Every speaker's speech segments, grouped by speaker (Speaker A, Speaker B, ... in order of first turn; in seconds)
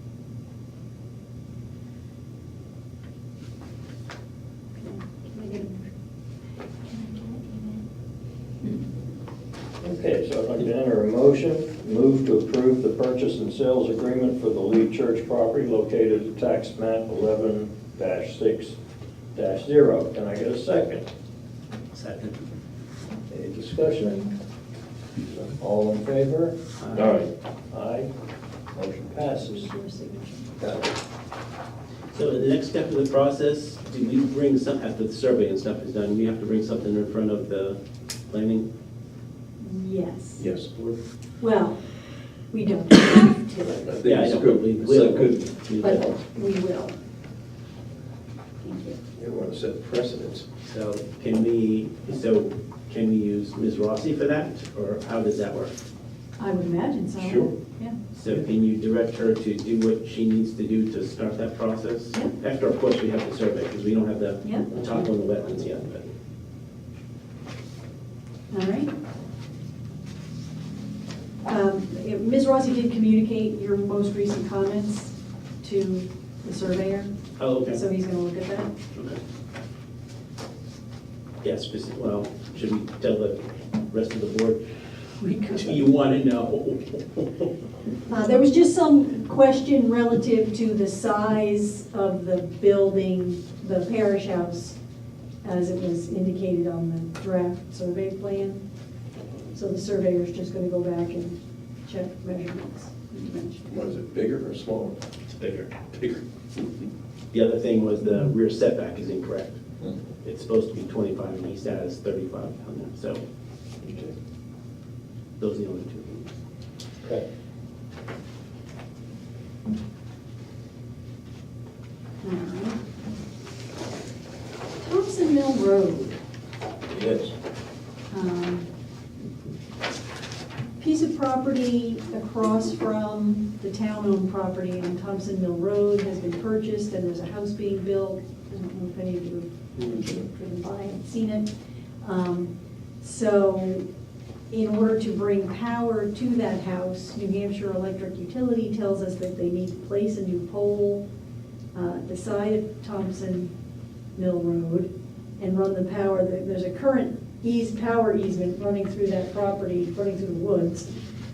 Speaker A: 4.8-5.9, 6.9-7.8, 29.4-30.4, 39.6-40.5, 41.4-41.8, 42.5-43.9, 45.8-46.9, 48.6-49.0, 56.4-58.0, 64.4-64.7, 68.5-68.9, 71.5-77.1, 77.7-78.7, 85.2-85.7, 88.1-94.8, 95.4-98.6, 99.5-103.7, 122.2-122.8, 124.8-126.2, 128.1-128.7, 130.8-141.5, 142.0-143.8, 144.5-151.0, 151.7-153.5, 154.2-160.9
Speaker B: 9.8-18.7, 19.4-21.0, 23.3-24.3, 25.2-28.1, 28.8-29.6, 30.6-30.9, 40.4-40.6, 50.1-50.4, 113.8-114.1, 126.9-127.3
Speaker C: 19.7-20.1, 25.7-26.3, 43.9-45.4, 49.2-50.4, 103.7-104.9, 105.9-106.2
Speaker D: 21.9-22.4, 26.8-27.2, 32.1-38.7, 44.0-46.0, 50.6-55.7, 58.1-66.0, 77.4-77.8, 78.9-79.2, 81.4-84.6, 85.3-87.5, 105.3-105.7, 107.3-109.6, 110.2-113.2, 115.4-116.3